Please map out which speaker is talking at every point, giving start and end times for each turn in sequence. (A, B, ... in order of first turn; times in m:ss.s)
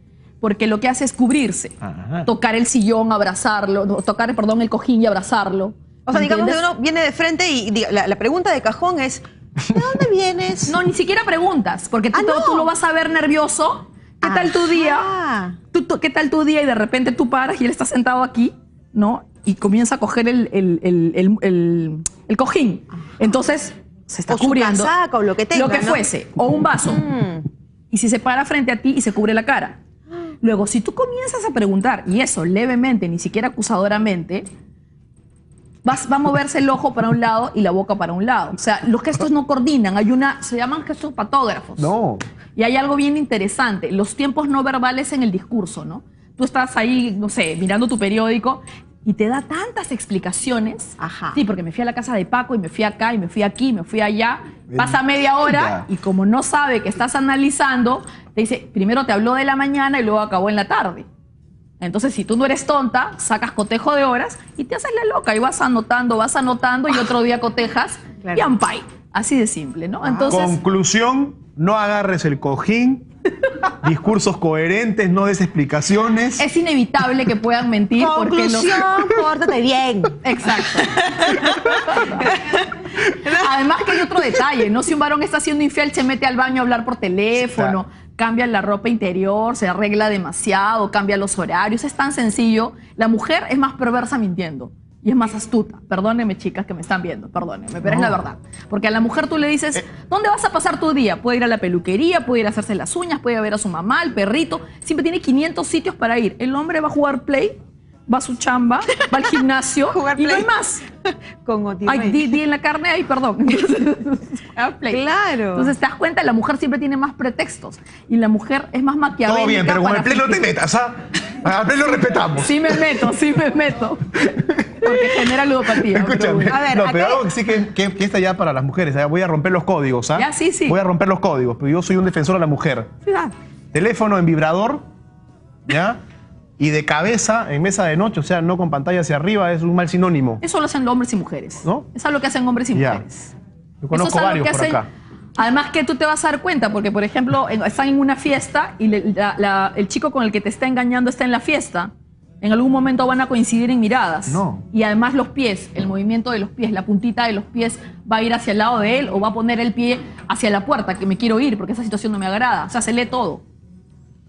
0:00.4-0:06.6 A
0:01.9-0:02.3 B
0:06.1-0:10.8 C
0:10.7-0:15.1 A
0:12.1-0:12.7 C
0:14.2-0:15.6 C
0:15.7-0:24.9 A
0:24.3-0:26.0 C
0:25.5-0:27.1 A
0:27.0-0:27.4 C
0:27.9-0:29.8 A
0:30.4-0:34.4 A
0:35.8-0:41.9 A
0:41.8-0:42.2 B
0:42.6-1:01.0 A
0:51.0-0:51.4 C
0:54.7-0:55.9 B
1:01.8-1:10.6 A
1:10.0-1:10.4 C
1:10.3-1:13.0 B
1:13.6-1:16.5 B
1:16.4-1:19.0 A
1:18.0-1:20.2 C
1:20.2-1:22.6 A
1:20.8-1:22.6 C
1:23.1-1:50.8 A
1:23.2-1:24.4 C
1:27.4-1:27.8 B
1:37.8-1:38.2 B
1:49.9-1:50.5 C
1:51.0-1:52.2 C
1:51.8-2:00.4 A
1:54.9-1:55.7 C
1:59.2-2:03.0 B
2:02.3-2:04.2 A
2:04.2-2:12.9 B
2:04.8-2:06.6 A
2:06.5-2:07.2 C
2:10.2-2:10.8 A
2:13.0-2:13.3 A
2:13.7-2:14.8 B
2:15.7-2:16.0 B
2:16.6-2:20.4 B
2:20.4-2:23.3 A
2:22.7-2:23.0 B
2:23.8-2:24.9 B
2:23.9-2:24.8 A
2:25.4-2:31.9 A
2:32.4-2:43.4 A
2:34.3-2:34.6 B